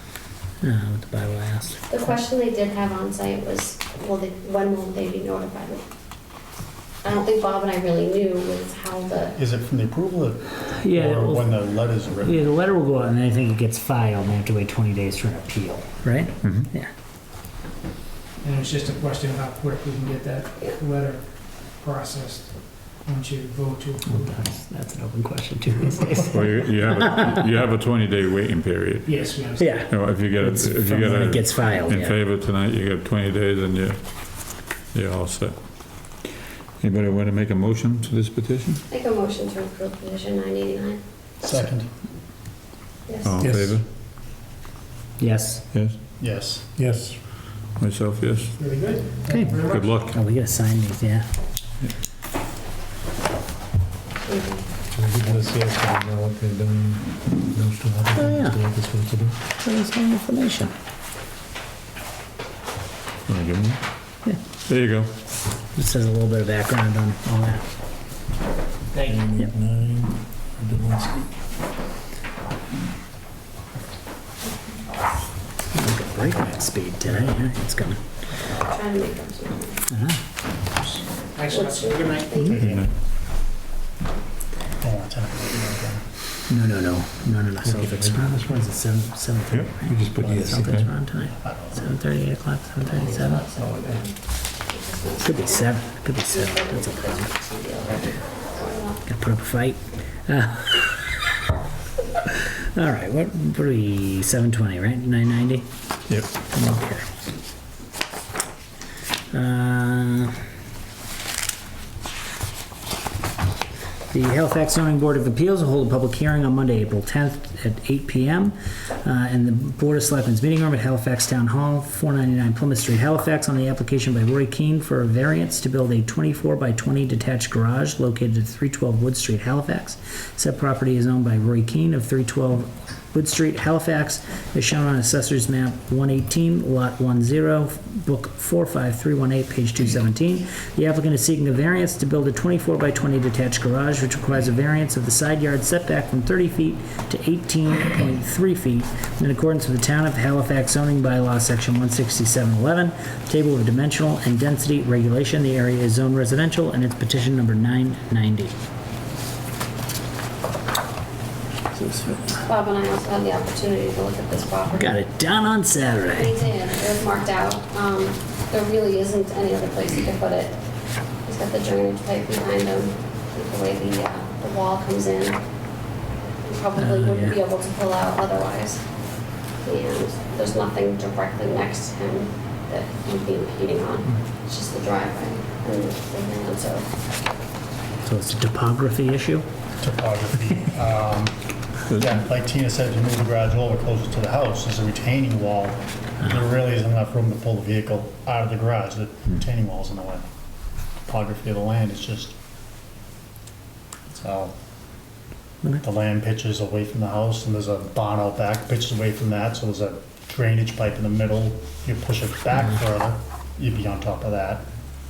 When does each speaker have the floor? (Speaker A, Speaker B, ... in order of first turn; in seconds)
Speaker A: 0.6-1.8, 10.8-11.6, 12.2-16.9, 24.1-27.3, 29.6-32.2, 45.2-45.6, 49.3-51.2, 58.1-58.6, 59.6-60.7, 65.7-67.6, 75.7-78.0, 79.9-80.2, 86.5-93.4, 95.2-97.3, 99.0-101.2, 102.4-105.7, 106.5-107.1, 109.3-110.3, 114.1-158.5, 161.7-162.4, 164.7-166.3, 176.8-177.4, 188.0-189.4
Speaker B: 1.9-5.8, 7.0-9.4, 38.9-41.0, 43.0-43.4, 54.2-54.7, 78.4-79.9, 81.5-82.7, 92.9-94.1, 94.7-99.0, 162.4-165.0, 166.1-170.6, 171.2-175.4, 176.4-178.8, 179.6-186.8
Speaker C: 9.4-12.4, 41.4-41.9, 46.2-46.6, 82.5-82.9, 84.8-86.0, 91.3-91.8, 189.8-191.4, 191.9-200.3, 201.1-202.3, 204.1-204.5, 205.8-214.6
Speaker D: 16.4-16.7, 26.3-29.1, 29.9-36.0, 36.8-38.8, 43.2-43.9, 47.8-48.5, 49.6-50.1, 63.3-63.8, 64.7-65.1, 82.5-82.9, 89.5-90.9
Speaker E: 18.4-24.4, 29.0-29.9, 49.4-49.8, 68.9-69.2, 80.9-82.4
Speaker F: 43.4-43.8, 46.8-47.2, 48.6-49.7, 54.9-59.4, 69.0-71.3, 87.6-88.7, 90.3-90.6